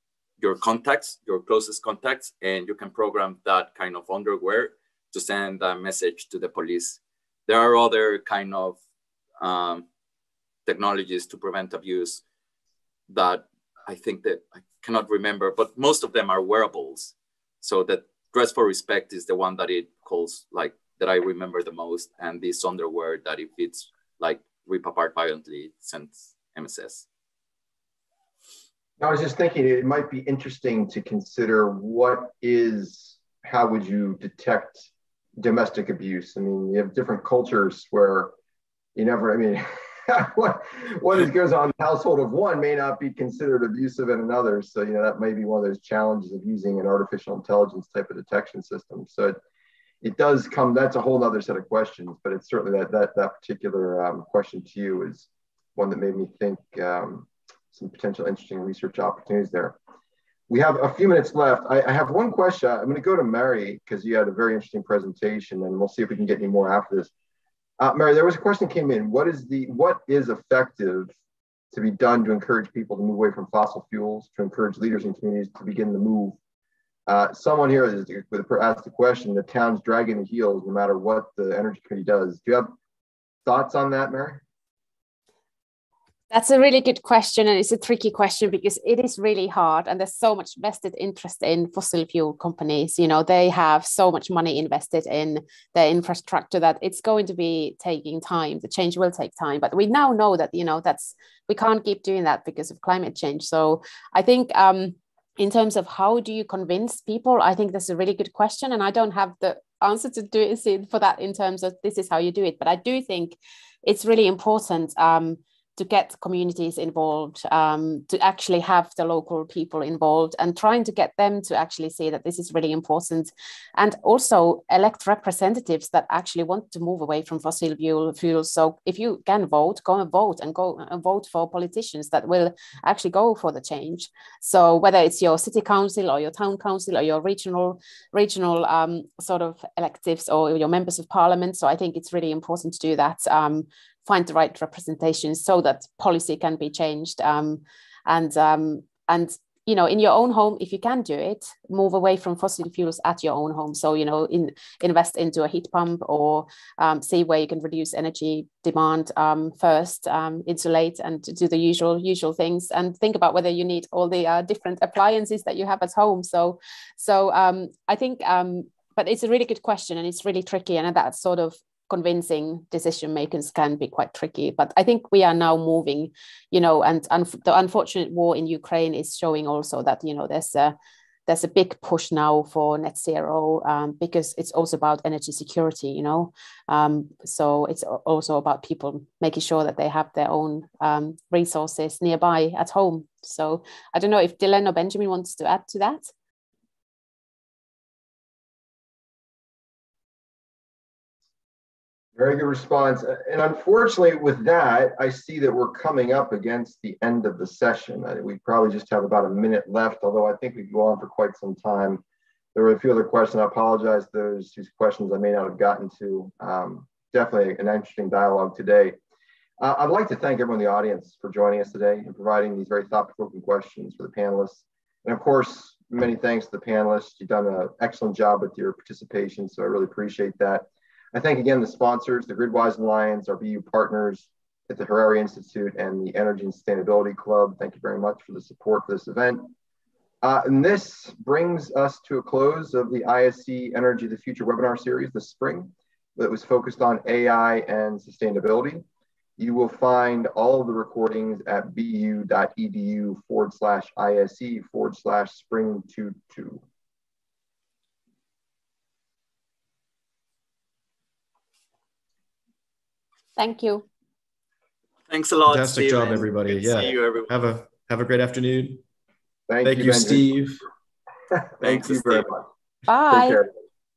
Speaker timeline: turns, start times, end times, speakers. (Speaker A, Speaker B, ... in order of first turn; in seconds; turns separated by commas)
Speaker A: 0.4-8.8, Speaker A: 9.4-9.9, Speaker A: 10.7-12.2, Speaker A: 13.1-27.1, Speaker B: 29.0-34.9, Speaker B: 35.4-38.3, Speaker B: 39.0-49.4, Speaker B: 50.0-59.8, Speaker B: 60.5-67.1, Speaker B: 67.8-71.2, Speaker B: 71.7-76.4, Speaker B: 77.1-82.7, Speaker B: 83.5-84.4, Speaker C: 86.3-180.8, Speaker C: 181.3-196.1, Speaker B: 202.2-212.0, Speaker B: 212.6-219.0, Speaker B: 219.6-239.5, Speaker B: 240.2-248.8, Speaker B: 249.4-256.6, Speaker C: 263.4-263.9, Speaker A: 265.1-267.3, Speaker D: 265.5-268.8, Speaker B: 269.5-270.3, Speaker D: 269.6-270.6, Speaker B: 271.6-272.5, Speaker A: 271.6-272.3, Speaker C: 272.9-273.4, Speaker B: 273.1-273.5